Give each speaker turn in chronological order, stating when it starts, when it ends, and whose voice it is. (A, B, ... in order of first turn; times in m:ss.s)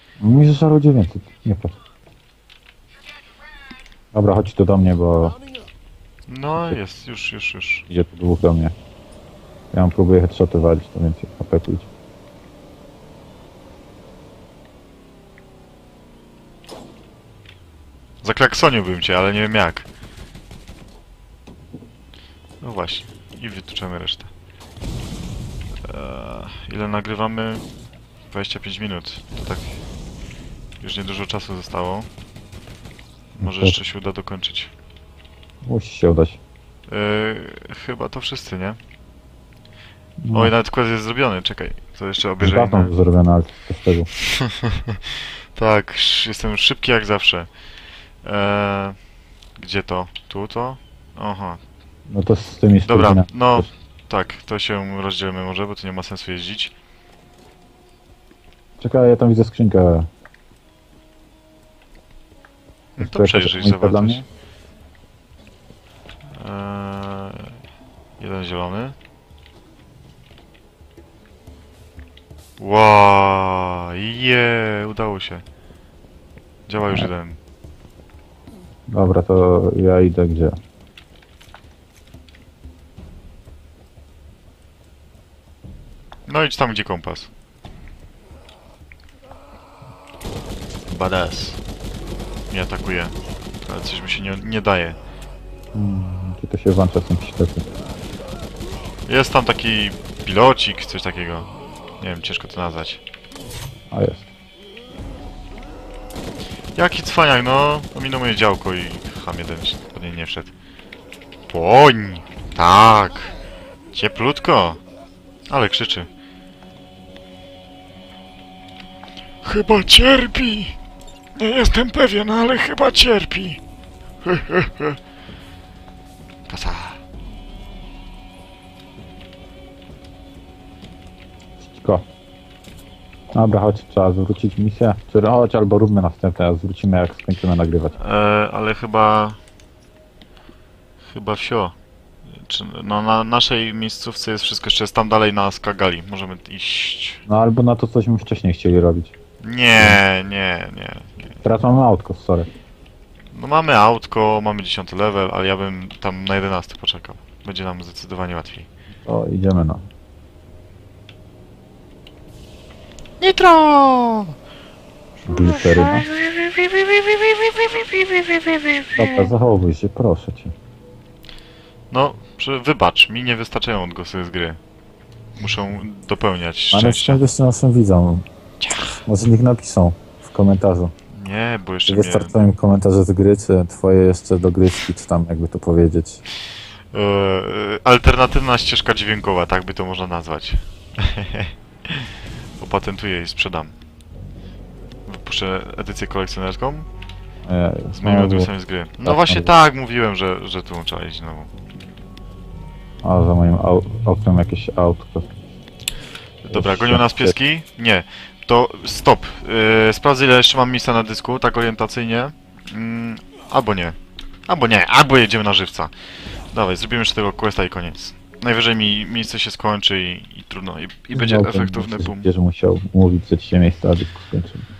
0:00.2-0:01.8 A
0:04.1-0:05.4 A
0:06.3-0:07.8 B
0:07.9-0:08.7 A
0:09.7-0:11.9 A
0:18.2-0:19.9 B
0:22.6-0:24.3 B
0:25.8-0:27.6 B
0:28.3-0:29.8 B
0:30.8-0:32.1 B
0:33.4-0:34.7 B
0:33.4-0:33.8 A
0:35.6-0:36.4 A
0:36.9-0:38.8 B
0:40.2-0:40.5 A
0:40.3-0:42.9 B
0:42.4-0:44.1 A
0:44.2-0:47.5 B
0:48.2-0:49.0 B
0:49.6-0:51.6 B
0:52.1-0:53.7 A
0:52.8-0:56.7 B
0:58.8-1:00.1 A
1:03.0-1:04.2 B
1:03.0-1:04.2 A
1:06.3-1:07.5 B
1:08.2-1:09.0 B
1:12.6-1:15.4 B
1:16.7-1:17.4 B
1:18.9-1:20.5 A
1:26.3-1:27.3 B
1:30.9-1:31.6 B
1:32.5-1:35.0 B
1:35.7-1:37.6 A
1:39.0-1:43.0 B
1:43.9-1:44.3 A
1:46.7-1:50.5 B
1:51.5-1:53.3 B
1:53.9-1:54.8 B
1:55.5-1:56.1 B
1:59.4-2:00.8 B
2:01.4-2:03.6 B
2:04.2-2:05.0 B
2:06.5-2:07.0 B
2:11.6-2:12.1 A
2:13.3-2:18.0 A
2:17.9-2:19.4 B
2:21.0-2:21.7 B
2:22.3-2:27.2 B
2:27.3-2:29.1 A
2:29.4-2:31.4 B
2:31.4-2:32.5 A
2:33.3-2:38.7 B
2:39.0-2:39.8 A
2:43.2-2:44.3 B
2:45.2-2:46.1 A
2:45.4-2:49.2 B
2:48.9-2:50.5 A
2:51.9-2:54.6 B
2:55.4-2:57.2 B
2:56.7-2:58.2 A
2:58.6-2:59.0 B
2:59.0-3:00.9 A
3:01.1-3:02.4 B
3:01.9-3:06.2 A
3:06.9-3:13.7 B
3:15.1-3:16.9 B
3:17.4-3:18.5 A
3:17.9-3:21.5 B
3:19.0-3:19.5 A
3:23.0-3:25.3 A
3:26.4-3:34.0 B
3:26.4-3:27.3 A
3:34.5-3:35.9 B
3:36.5-3:42.3 B
3:41.1-3:44.6 A